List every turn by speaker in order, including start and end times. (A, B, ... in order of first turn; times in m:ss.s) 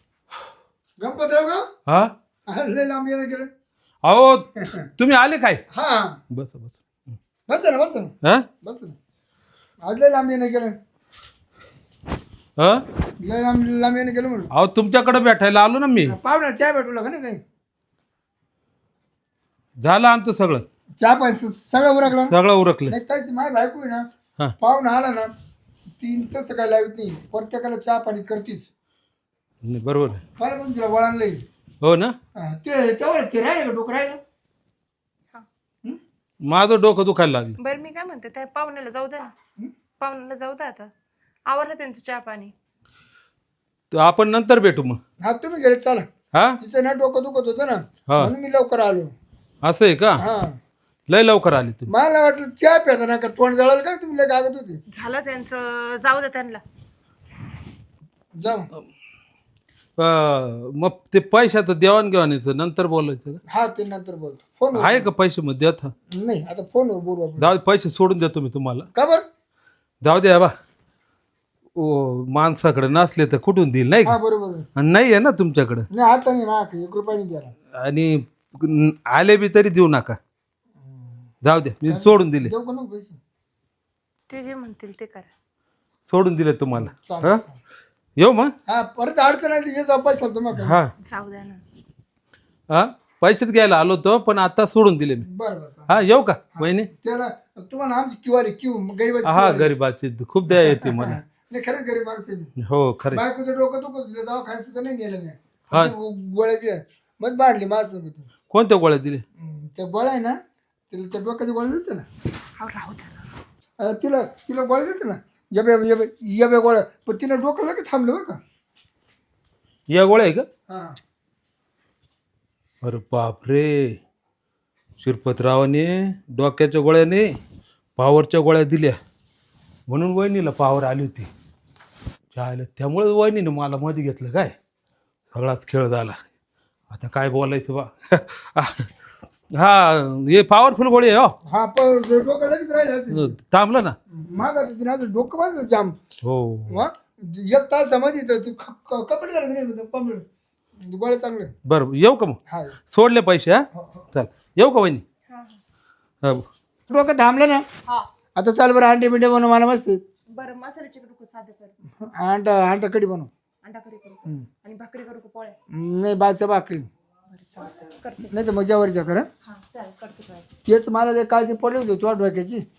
0:01.0-0:01.6 A
0:01.9-0:02.1 B
0:02.5-0:03.5 A
0:04.0-0:05.6 B
0:05.7-0:06.1 A
0:06.3-0:06.8 B
0:07.5-0:08.1 A
0:08.6-0:09.0 A
0:09.8-0:10.7 A
0:12.6-0:12.8 B
0:13.2-0:14.5 A
0:14.5-0:16.2 B
0:16.0-0:17.4 A
0:19.8-0:20.6 B
0:21.0-0:22.4 A
0:22.1-0:23.0 B
0:22.9-0:24.0 A
0:24.6-0:25.3 A
0:26.0-0:28.7 A
0:29.7-0:30.2 B
0:30.4-0:31.4 A
0:31.8-0:32.1 B
0:32.4-0:34.2 A
0:36.4-0:37.6 B
0:37.6-0:39.3 C
0:40.0-0:40.9 C
0:41.5-0:42.5 C
0:43.9-0:45.0 B
0:45.2-0:46.1 A
0:46.3-0:46.6 B
0:46.6-0:49.1 A
0:49.6-0:50.2 B
0:50.2-0:50.6 A
0:51.1-0:51.9 B
0:51.9-0:54.8 A
0:55.0-0:56.6 C
0:58.4-0:58.7 A
1:00.0-1:03.4 B
1:03.5-1:05.1 A
1:04.7-1:05.9 B
1:06.2-1:07.5 A
1:07.4-1:08.9 B
1:09.0-1:09.2 A
1:10.0-1:10.5 B
1:11.8-1:14.2 B
1:14.0-1:14.7 A
1:14.8-1:15.9 B
1:15.9-1:17.5 A
1:17.8-1:20.2 B
1:21.4-1:22.5 B
1:21.9-1:23.2 A
1:24.3-1:25.3 C
1:26.1-1:27.4 B
1:26.8-1:27.6 A
1:28.2-1:28.5 B
1:28.7-1:30.8 A
1:30.6-1:30.9 B
1:31.0-1:31.6 C
1:32.7-1:35.3 B
1:35.2-1:36.0 A
1:35.9-1:36.9 B
1:36.6-1:39.7 A
1:39.2-1:41.2 B
1:40.5-1:42.5 A
1:42.6-1:43.2 B
1:43.1-1:48.3 A
1:48.5-1:49.2 B
1:49.4-1:50.4 A
1:50.9-1:52.0 A
1:52.6-1:53.2 C
1:53.8-1:58.4 A
1:59.9-2:00.5 B
2:00.7-2:01.0 A
2:02.8-2:04.0 B
2:05.0-2:07.3 B
2:08.0-2:09.0 B
2:09.9-2:11.3 B
2:12.4-2:14.5 B
2:15.3-2:16.2 B
2:16.9-2:18.9 B
2:19.6-2:21.4 B
2:21.5-2:23.4 A
2:23.1-2:24.0 B
2:24.1-2:26.0 A
2:26.2-2:26.9 B
2:26.7-2:30.2 A
2:30.8-2:31.5 A
2:31.7-2:32.4 B
2:32.5-2:32.8 A
2:32.9-2:33.6 B
2:33.8-2:34.0 A
2:34.1-2:35.0 B
2:36.9-2:37.6 A
2:38.4-2:40.0 A
2:40.4-2:41.7 C
2:42.0-2:43.3 A
2:43.6-2:45.6 C
2:45.7-2:46.9 A
2:47.3-2:48.3 C
2:48.3-2:49.3 A
2:49.5-2:50.5 C
2:50.7-2:52.6 A